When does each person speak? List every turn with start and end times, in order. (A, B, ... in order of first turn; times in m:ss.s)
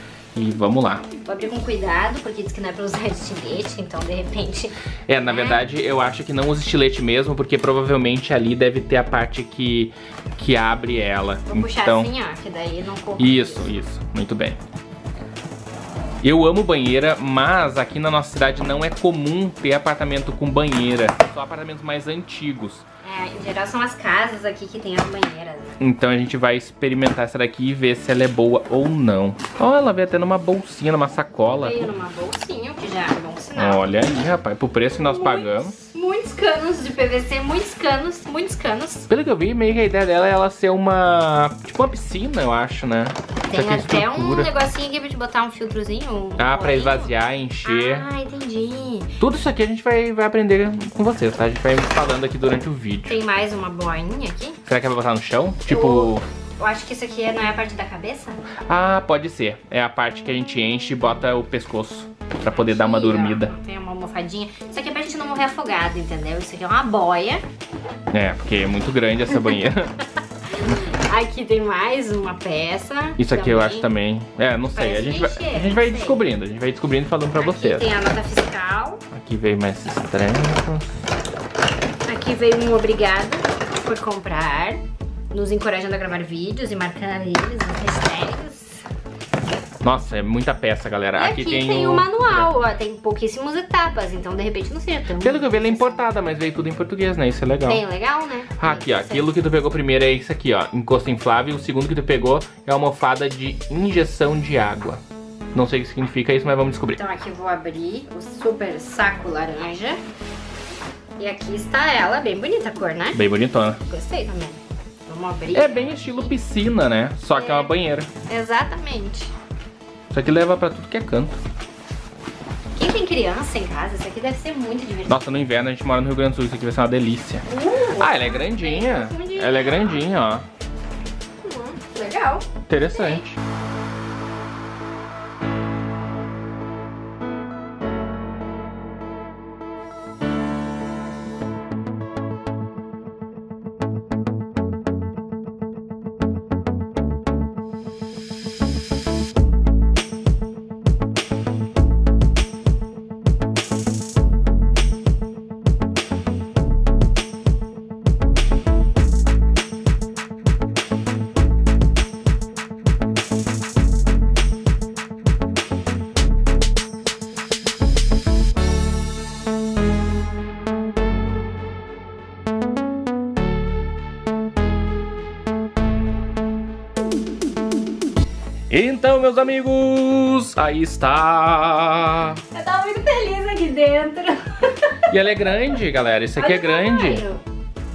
0:00.3-0:01.1 A
0:01.2-0:05.6 B
0:05.1-0:12.1 A
0:11.5-0:13.7 B
0:13.2-0:14.6 A
0:16.2-0:22.8 A
0:23.0-0:25.8 B
0:25.8-0:31.9 A
0:31.5-0:33.9 B
0:33.6-0:35.8 A
0:35.0-0:39.1 B
0:39.1-0:44.5 A
0:43.5-0:47.1 B
0:46.4-0:48.1 A
0:47.6-0:49.2 B
0:49.2-0:53.2 A
0:53.1-0:54.6 B
0:54.7-0:56.2 A
0:55.7-0:58.4 B
0:58.7-1:03.5 A
1:02.5-1:07.4 B
1:08.1-1:09.9 A
1:10.5-1:13.9 B
1:13.2-1:17.9 A
1:14.7-1:16.2 B
1:17.4-1:19.0 B
1:19.1-1:20.9 A
1:22.1-1:24.8 B
1:25.3-1:28.8 B
1:29.8-1:32.5 A
1:31.2-1:36.1 B
1:35.2-1:37.8 A
1:37.6-1:39.3 B
1:38.6-1:45.0 A
1:45.5-1:47.0 A
1:47.0-1:50.0 B
1:51.2-1:53.2 B
1:53.1-1:53.8 A
1:53.9-1:56.3 B
1:55.5-1:58.1 A
1:57.3-1:57.7 B
1:58.2-1:59.3 B
2:00.1-2:01.4 A
2:02.7-2:05.2 B
2:05.1-2:07.4 A
2:07.5-2:10.1 B
2:08.0-2:10.4 A
2:11.4-2:13.2 B
2:12.7-2:13.4 A
2:58.7-3:02.4 A
3:02.5-3:05.1 B
3:05.1-3:07.2 A
3:06.3-3:07.4 B